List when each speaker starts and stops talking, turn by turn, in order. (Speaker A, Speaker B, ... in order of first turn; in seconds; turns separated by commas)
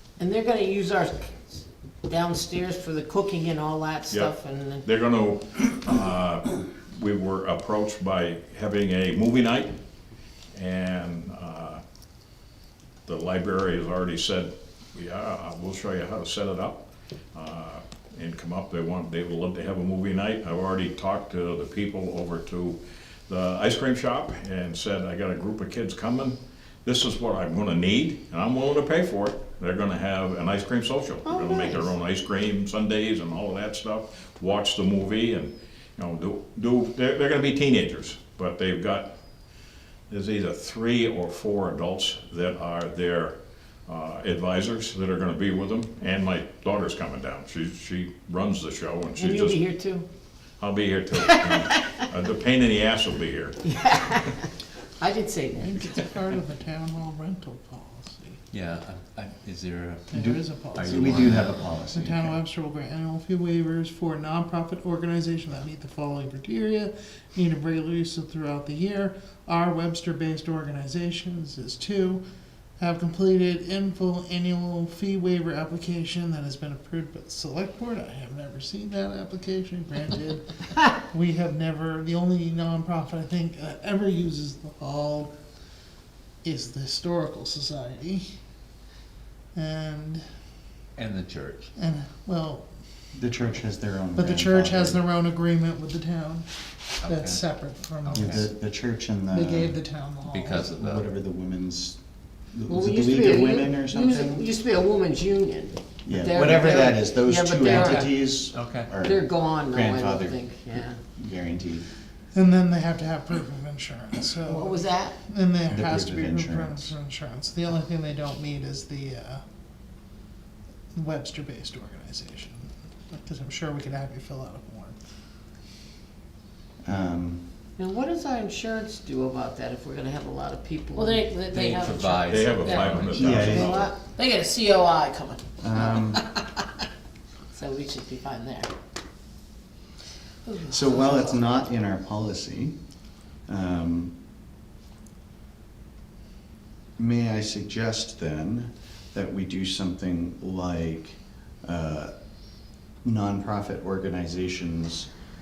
Speaker A: 0.2-4.8, Speaker B: 4.1-9.7, Speaker B: 10.5-11.8, Speaker B: 13.0-39.1, Speaker A: 31.2-31.9, Speaker B: 40.1-43.4, Speaker B: 43.9-49.6, Speaker A: 49.1-50.0, Speaker B: 50.6-53.6, Speaker A: 51.1-52.0, Speaker A: 53.6-56.0, Speaker C: 55.5-58.4, Speaker D: 58.5-61.6, Speaker C: 60.1-72.2, Speaker E: 60.1-62.4, Speaker C: 72.8-85.3, Speaker C: 86.4-88.2, Speaker C: 89.5-90.2, Speaker D: 91.0-91.7, Speaker C: 91.8-92.6, Speaker E: 93.1-95.0, Speaker C: 94.1-96.5, Speaker D: 97.0-97.4, Speaker C: 97.0-98.5, Speaker D: 98.0-98.5, Speaker E: 98.1-99.8, Speaker C: 99.3-100.6, Speaker D: 100.2-101.1, Speaker E: 100.7-104.5, Speaker A: 102.7-108.1, Speaker E: 106.0-110.4, Speaker D: 107.7-108.9, Speaker A: 109.0-111.0, Speaker E: 111.2-111.9, Speaker C: 112.3-119.4, Speaker A: 114.4-115.2, Speaker E: 115.7-116.9, Speaker C: 120.9-125.0, Speaker E: 126.8-127.5, Speaker A: 127.8-131.3, Speaker F: 130.9-132.4, Speaker D: 131.5-133.7, Speaker B: 132.3-134.0, Speaker A: 132.6-134.0, Speaker E: 133.1-133.8, Speaker F: 134.1-135.5, Speaker E: 135.6-136.2, Speaker F: 137.6-138.7, Speaker A: 140.4-141.5, Speaker E: 140.7-142.8, Speaker E: 143.5-144.1, Speaker E: 147.0-152.1, Speaker E: 153.0-155.1